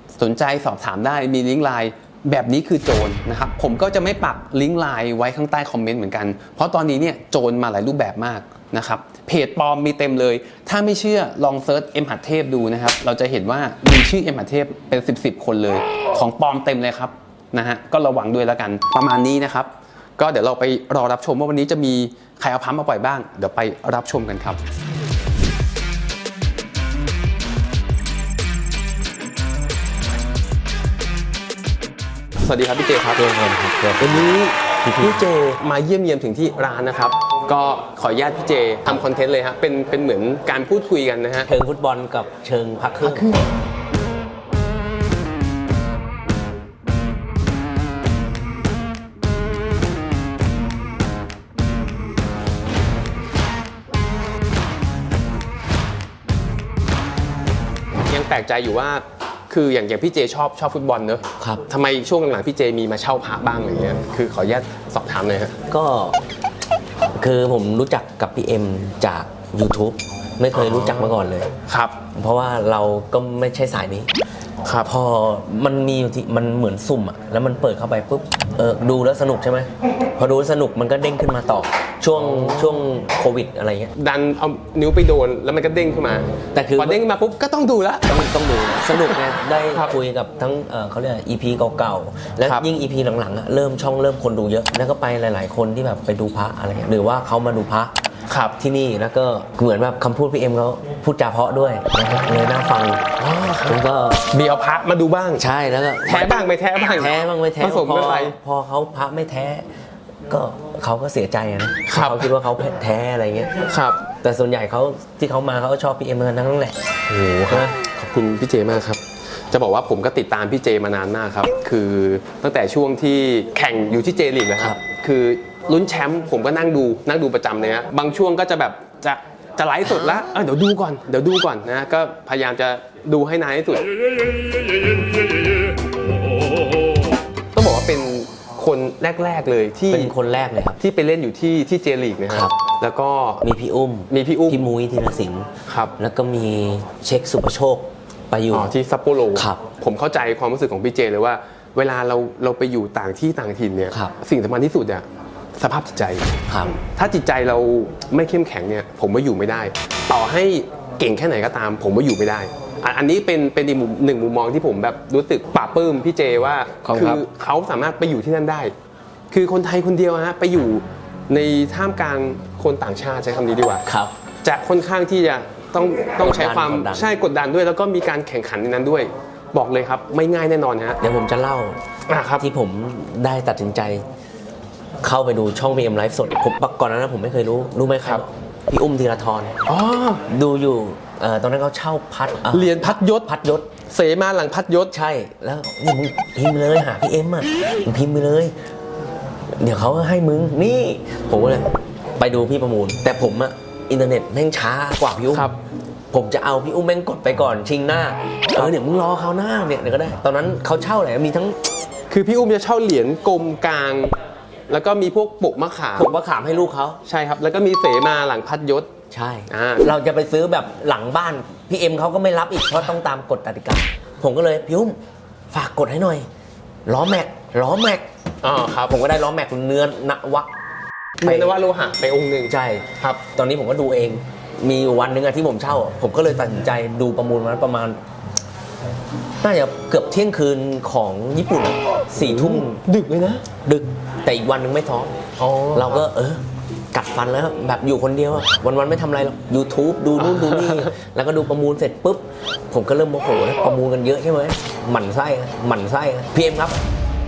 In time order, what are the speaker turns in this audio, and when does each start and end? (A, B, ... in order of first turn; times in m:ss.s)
0:00.2-0:24.6 A
0:32.4-0:33.2 A
0:33.1-0:35.4 B
0:34.0-0:41.5 A
0:41.4-0:43.3 B
0:43.0-0:43.5 A
0:58.1-1:05.5 A
1:05.7-1:06.2 B
1:07.2-1:11.5 B
1:10.5-1:11.1 A
1:11.7-1:12.0 A
1:12.1-1:14.1 B
1:14.6-1:14.9 A
1:14.8-1:23.9 B
1:22.2-1:22.8 A
1:24.0-1:28.2 A
1:26.5-1:27.0 B
1:28.1-1:37.9 B
1:38.3-1:38.6 A
1:38.6-1:43.0 B
1:43.2-1:45.4 A
1:43.6-1:44.2 B
1:45.4-1:49.6 B
1:46.0-1:48.3 A
1:50.3-1:53.5 B
1:51.9-1:52.3 A
1:53.7-1:54.1 A
1:54.2-1:56.8 B
1:57.1-2:13.9 A
1:57.5-1:57.7 B
2:17.5-2:20.1 A
2:19.9-2:20.8 B
2:20.8-2:23.4 A
2:22.3-2:22.5 B
2:23.4-2:28.7 B
2:24.1-2:24.6 A
2:25.7-2:25.9 A
2:28.5-2:35.0 A
2:29.3-2:29.6 B
2:35.6-2:36.3 A
2:36.5-2:36.8 B
2:36.8-2:48.7 A
2:46.8-2:47.2 B
2:49.3-2:53.8 A
2:53.8-2:54.1 B
2:54.4-3:01.0 A
2:56.2-2:57.1 B
3:01.0-3:01.8 B
3:02.1-3:02.4 A
3:02.4-3:04.0 B
3:05.0-3:09.6 B
3:09.7-3:10.2 A
3:10.3-3:13.7 B
3:12.5-3:13.3 A
3:13.9-3:14.9 A
3:14.9-3:18.5 B
3:19.6-3:25.5 B
3:25.3-3:25.6 A
3:26.1-3:31.6 B
3:32.1-3:34.1 A
3:34.7-3:36.1 A
3:36.0-3:37.0 B
3:37.1-3:38.9 A
3:39.1-3:45.0 B
3:39.5-3:39.9 A
3:45.5-3:46.3 B
3:46.8-3:48.0 B
3:48.4-3:48.9 A
3:48.9-3:50.5 B
3:51.2-3:53.2 A
3:51.2-3:51.6 B
3:52.5-3:58.0 B
3:59.4-4:02.8 B
4:02.1-4:03.4 A
4:03.6-4:05.1 B
4:05.4-4:06.0 A
4:05.7-4:16.8 B
4:10.2-4:10.9 A